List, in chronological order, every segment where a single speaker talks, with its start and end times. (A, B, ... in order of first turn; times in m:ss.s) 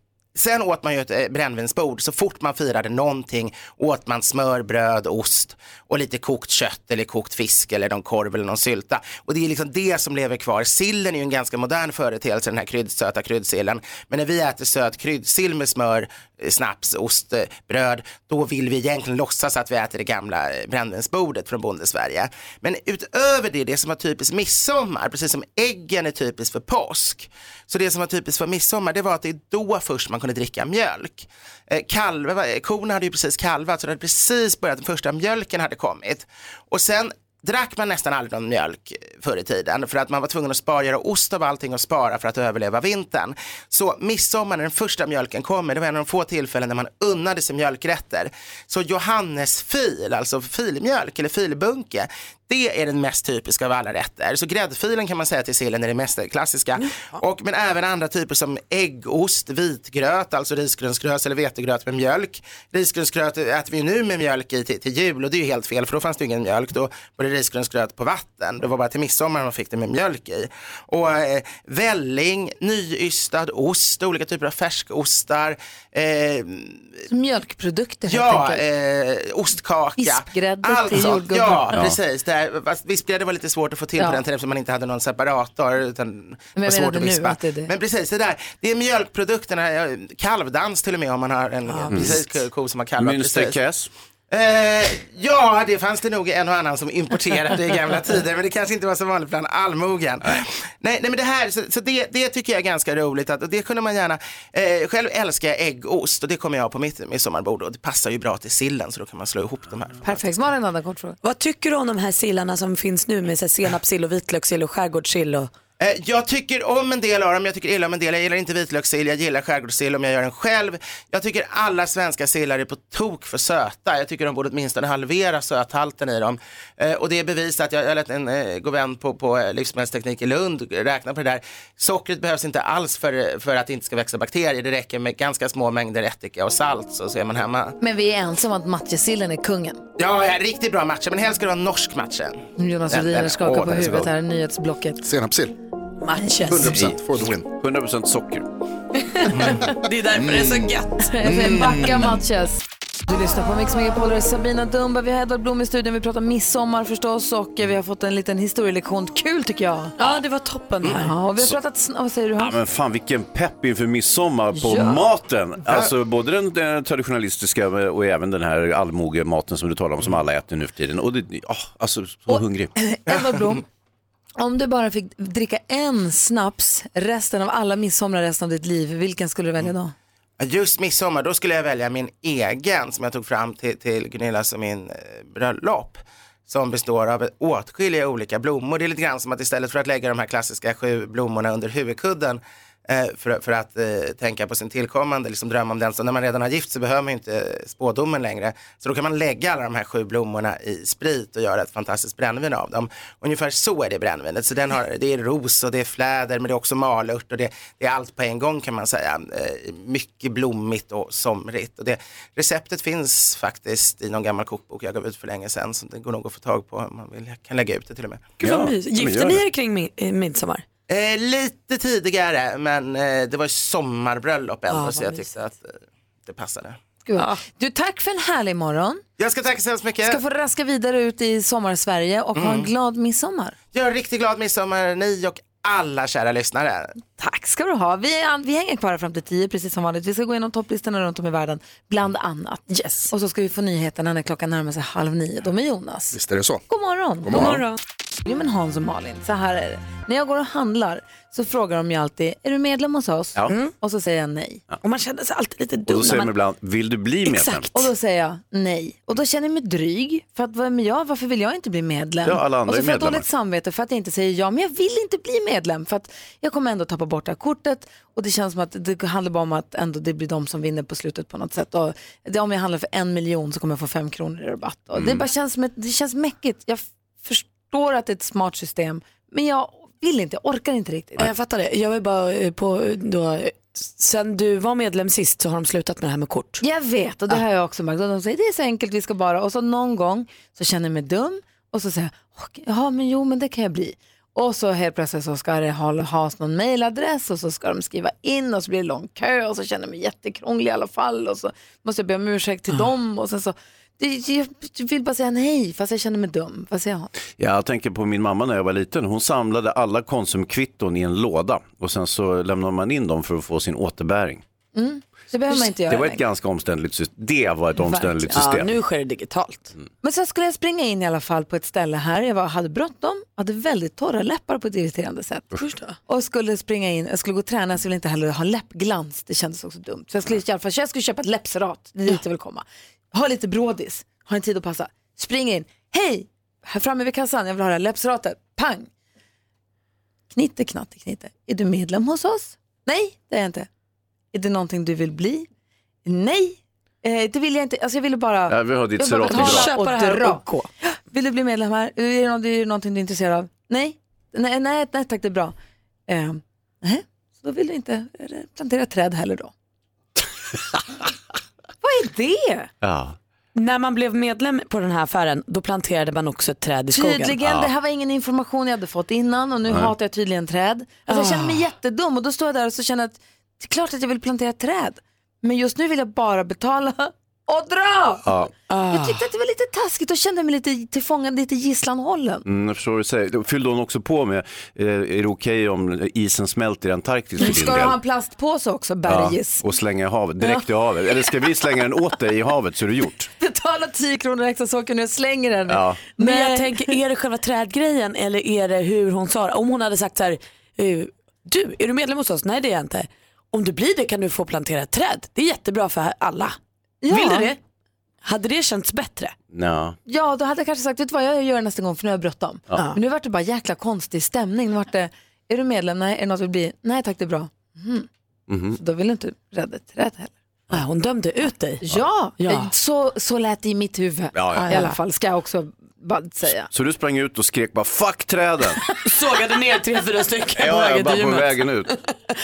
0:00.3-1:16.9 A
0:56.8-0:57.2 B
1:17.1-1:18.6 C
1:18.1-1:33.6 A
1:20.0-1:21.6 C
1:21.7-1:22.0 D
1:24.0-1:24.2 C
1:26.5-1:27.7 C
1:31.7-1:32.0 B
1:31.9-1:32.2 D
1:33.0-1:33.9 D
1:34.3-1:50.3 A
1:50.0-1:51.2 C
1:51.2-1:55.5 B
1:55.8-2:17.8 A
2:17.8-2:19.8 C
2:20.0-2:24.1 A
2:22.6-2:25.0 C
2:25.0-2:25.5 E
2:26.0-2:26.8 B
2:26.4-2:27.4 E
2:26.7-2:28.5 D
2:29.2-2:31.1 B
2:30.2-2:30.7 E
2:31.1-2:39.9 C
2:31.2-2:32.1 E
2:40.0-2:41.1 B
2:40.9-2:42.6 C
2:42.4-2:52.7 D
2:44.5-2:45.1 C
2:52.3-2:53.6 C
2:54.4-2:59.9 C
3:00.4-3:38.3 A
3:38.4-3:40.6 B
3:38.4-3:39.4 D
3:40.9-3:46.8 A
3:44.7-3:45.3 B
3:47.0-3:49.0 C
3:49.2-3:50.2 A
3:50.0-3:53.5 C
3:52.3-3:52.7 A
3:53.7-3:56.9 A
3:57.2-4:06.2 C
4:02.7-4:03.1 B
4:06.1-4:06.6 E
4:06.7-4:07.5 C
4:07.2-4:07.6 E
4:07.3-4:07.8 B
4:08.2-4:14.6 C
4:13.5-4:13.7 B
4:14.8-4:16.3 B
4:15.9-4:17.6 D
4:17.2-4:17.9 B
4:17.7-4:41.2 C
4:22.2-4:23.2 D
4:34.9-4:35.2 D
4:41.2-4:46.6 B
4:46.6-5:07.1 C
5:07.4-5:14.4 D
5:14.7-5:16.2 C
5:15.8-5:18.7 D
5:17.8-5:18.4 C
5:18.3-5:19.7 B
5:20.0-5:25.5 C
5:25.6-5:26.0 B
5:26.1-5:38.9 C
5:40.3-5:43.7 C
5:44.3-5:45.5 C
5:46.0-5:55.5 C
5:48.5-5:49.7 D
5:49.2-5:50.7 B
5:56.1-5:59.5 C
6:01.8-6:02.7 C
6:02.8-6:03.2 D
6:03.5-6:07.4 B
6:06.9-6:18.3 C
6:07.4-6:07.7 D
6:09.7-6:09.9 D
6:11.1-6:11.6 B
6:18.2-6:18.5 D
6:18.7-6:19.2 B
6:18.8-6:22.4 C
6:22.4-6:28.0 D
6:27.4-6:29.6 C
6:29.1-6:33.3 D
6:33.4-6:36.9 C
6:35.7-6:36.0 D
6:36.2-6:46.6 B
6:47.0-6:47.5 C
6:47.1-6:47.6 B
6:48.2-6:49.3 B
6:49.5-6:50.0 D
6:50.0-6:58.1 C
6:58.5-6:58.8 D
6:58.7-7:00.3 C
7:00.7-7:01.8 B
7:01.8-7:06.7 C
7:02.4-7:02.7 B
7:04.3-7:04.7 D
7:04.6-7:05.0 B
7:06.7-7:08.8 D
7:09.0-7:12.0 B
7:10.5-7:11.9 D